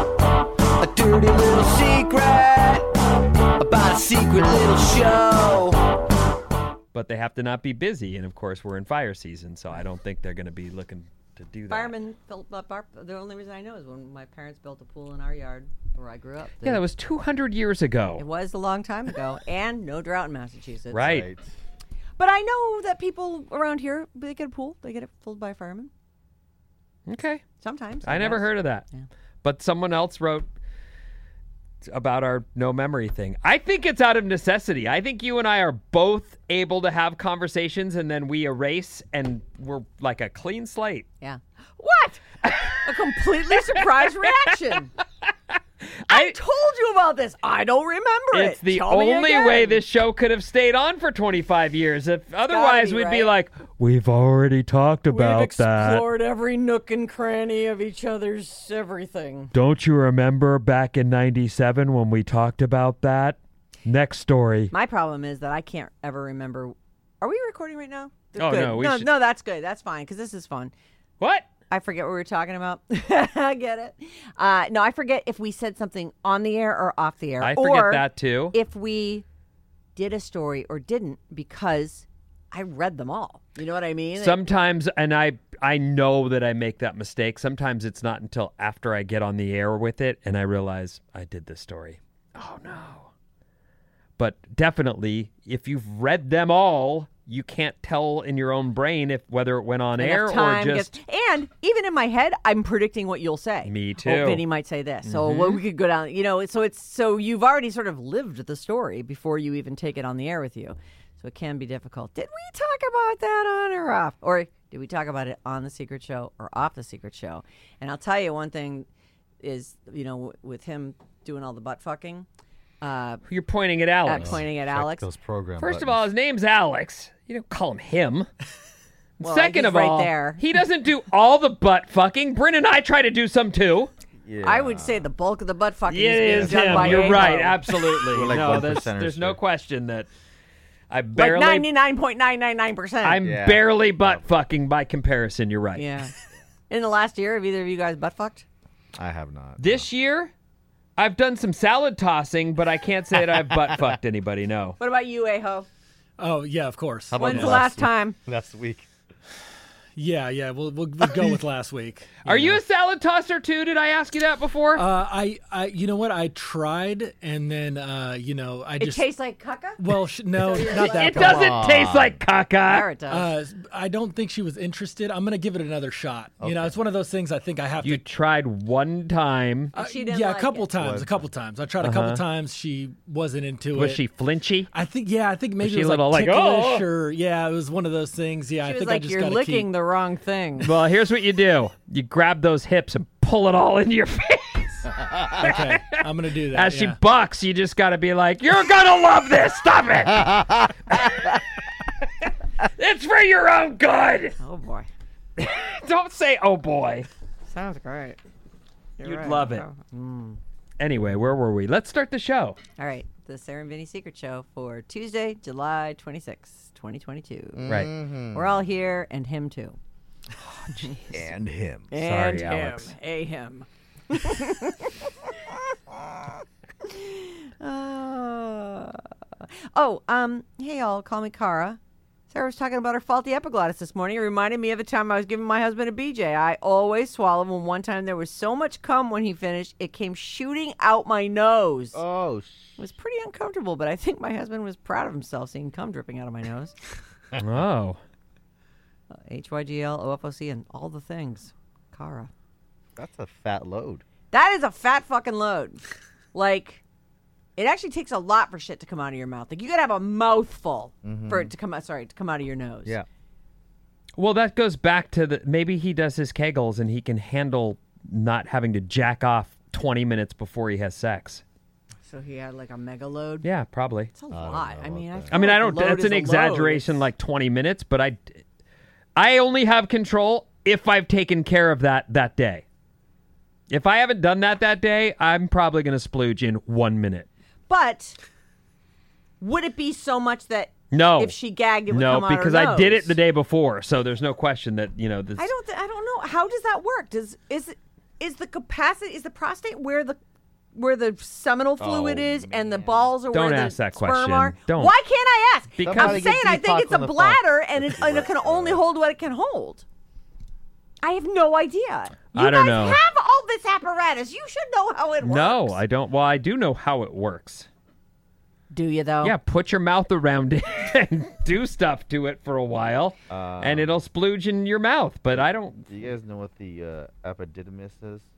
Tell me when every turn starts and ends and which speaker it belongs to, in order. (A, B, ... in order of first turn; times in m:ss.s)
0:00.8-0:02.9 A
0:03.6-0:05.8 A
0:06.9-0:11.9 B
0:11.7-0:16.8 C
0:16.6-0:18.2 B
0:18.2-0:21.2 C
0:20.9-0:21.3 B
0:21.0-0:21.5 D
0:22.2-0:25.9 C
0:27.1-0:27.4 B
0:27.6-0:29.1 C
0:28.0-0:28.9 B
0:29.4-0:30.5 B
0:31.9-0:41.1 B
0:41.2-0:44.9 C
0:46.0-0:46.4 B
0:46.1-0:49.8 C
0:48.3-0:56.0 B
0:52.5-0:53.3 C
0:55.1-0:59.5 C
0:59.5-1:04.7 B
1:04.7-1:10.7 C
1:08.4-1:09.1 B
1:11.2-1:11.5 B
1:11.7-1:19.2 C
1:17.4-1:18.6 B
1:20.0-1:24.4 C
1:24.2-1:33.1 B
1:34.2-1:40.9 B
1:40.0-1:58.9 C
1:43.6-1:44.4 B
1:45.0-1:45.6 B
1:59.4-2:02.3 C
2:02.8-2:03.2 C
2:03.3-2:04.4 B
2:04.0-2:05.1 C
2:04.2-2:06.0 D
2:05.6-2:08.3 B
2:09.2-2:13.9 B
2:09.2-2:10.4 C
2:14.2-2:15.1 D
2:14.4-2:17.8 C
2:15.9-2:20.1 B
2:16.3-2:19.4 D
2:20.9-2:21.7 B
2:21.2-2:23.2 C
2:23.0-2:25.8 B
2:23.2-2:24.3 D
2:25.8-2:26.1 C
2:26.7-2:28.4 C
2:28.9-2:29.9 D
2:29.6-2:30.3 B
2:31.0-2:34.8 B
2:34.8-2:35.7 C
2:36.2-2:37.6 E
2:37.1-2:38.9 D
2:37.2-2:38.2 C
2:40.0-2:42.6 E
2:42.2-2:44.8 B
2:44.7-2:49.1 E
2:48.8-2:51.4 C
2:49.8-2:51.6 E
2:50.6-2:52.9 B
2:51.1-2:52.2 D
2:52.7-2:53.3 C
2:53.1-2:58.0 E
2:56.4-2:56.7 D
2:57.8-2:59.7 B
2:59.7-3:00.7 C
2:59.7-3:04.0 E
3:00.8-3:01.2 D
3:01.8-3:02.2 B
3:03.7-3:04.7 B
3:04.7-3:09.7 E
3:05.6-3:06.8 B
3:08.6-3:10.7 C
3:10.6-3:21.4 B
3:15.4-3:17.0 E
3:22.0-3:24.4 B
3:24.4-3:24.9 C
3:25.4-3:27.1 B
3:27.4-3:28.2 C
3:29.0-3:30.4 C
3:29.0-3:29.7 B
3:30.8-3:32.6 B
3:32.8-3:39.8 C
3:37.6-3:38.6 D
3:40.7-3:41.0 B
3:41.1-3:41.9 D
3:41.9-3:45.1 C
3:42.0-3:42.9 B
3:46.8-4:02.0 C
4:01.9-4:02.8 D
4:02.8-4:06.7 C
4:07.4-4:08.0 B
4:09.1-4:12.3 C
4:13.0-4:14.0 D
4:14.3-4:15.8 C
4:16.3-4:16.8 C
4:17.6-4:23.0 C
4:21.0-4:21.5 D
4:24.2-4:31.4 B
4:32.0-4:33.4 C
4:33.4-4:34.1 B
4:34.1-4:37.0 C
4:34.3-4:35.4 D
4:35.3-4:38.4 B
4:39.2-4:42.6 B
4:43.7-4:47.3 B
4:47.7-4:48.2 C
4:49.4-4:53.2 C
4:50.9-4:51.4 B
4:51.9-4:55.5 B
4:55.4-5:00.2 C
5:00.7-5:09.8 C
5:01.8-5:03.1 D
5:03.3-5:04.9 B
5:05.8-5:06.3 B
5:05.8-5:08.8 D
5:11.0-5:15.8 C
5:12.3-5:13.0 B
5:15.2-5:17.7 B
5:18.7-5:19.3 C
5:19.2-5:25.9 B
5:23.3-5:24.0 D
5:25.3-5:28.3 D